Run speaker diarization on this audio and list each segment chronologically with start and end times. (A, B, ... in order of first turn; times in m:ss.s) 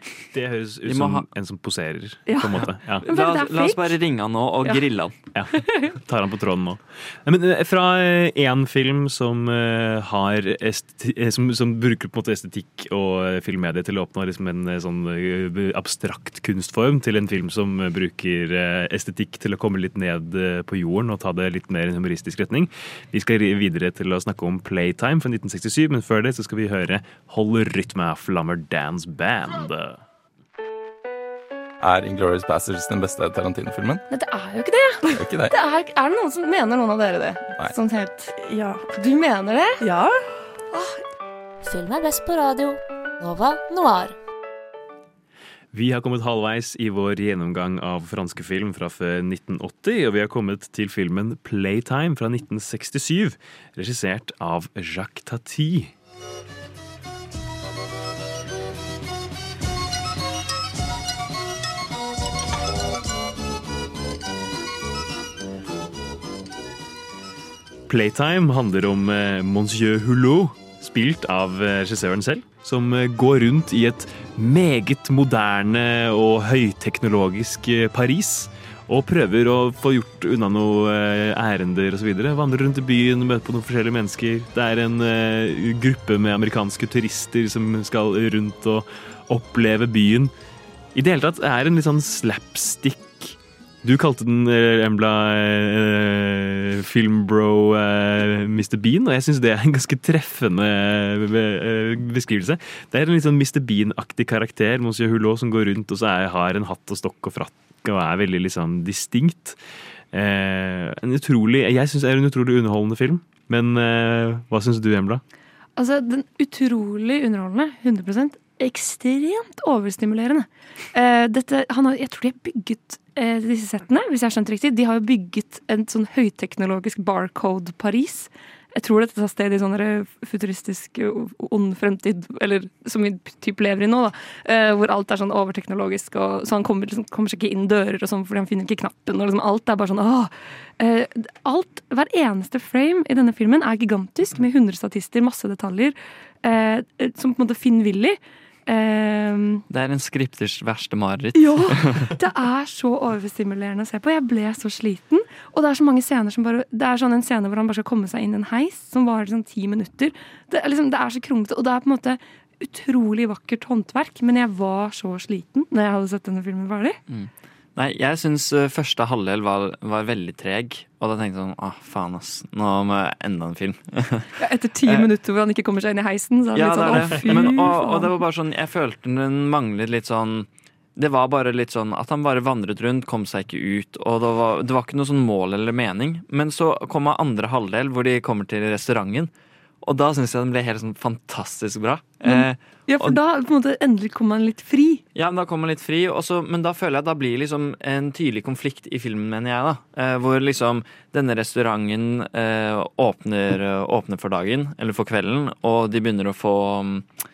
0:00.3-0:03.0 A
0:00.8-0:01.2 B
0:02.3-0:03.9 C
0:03.0-0:05.1 B
0:05.3-0:30.0 A
0:05.5-0:05.9 C
0:31.8-0:34.0 D
0:34.1-0:39.8 C
0:35.1-0:35.5 D
0:41.6-0:44.2 E
0:45.7-0:55.9 A
1:07.9-1:30.3 A
1:30.9-1:49.6 A
1:50.1-1:55.2 A
1:55.8-2:29.6 C
2:29.7-2:32.1 B
2:31.3-2:47.0 C
2:47.1-2:55.1 B
2:54.4-2:58.1 C
2:56.5-3:09.3 B
3:09.8-3:13.2 B
3:12.2-3:15.0 C
3:15.1-3:27.0 B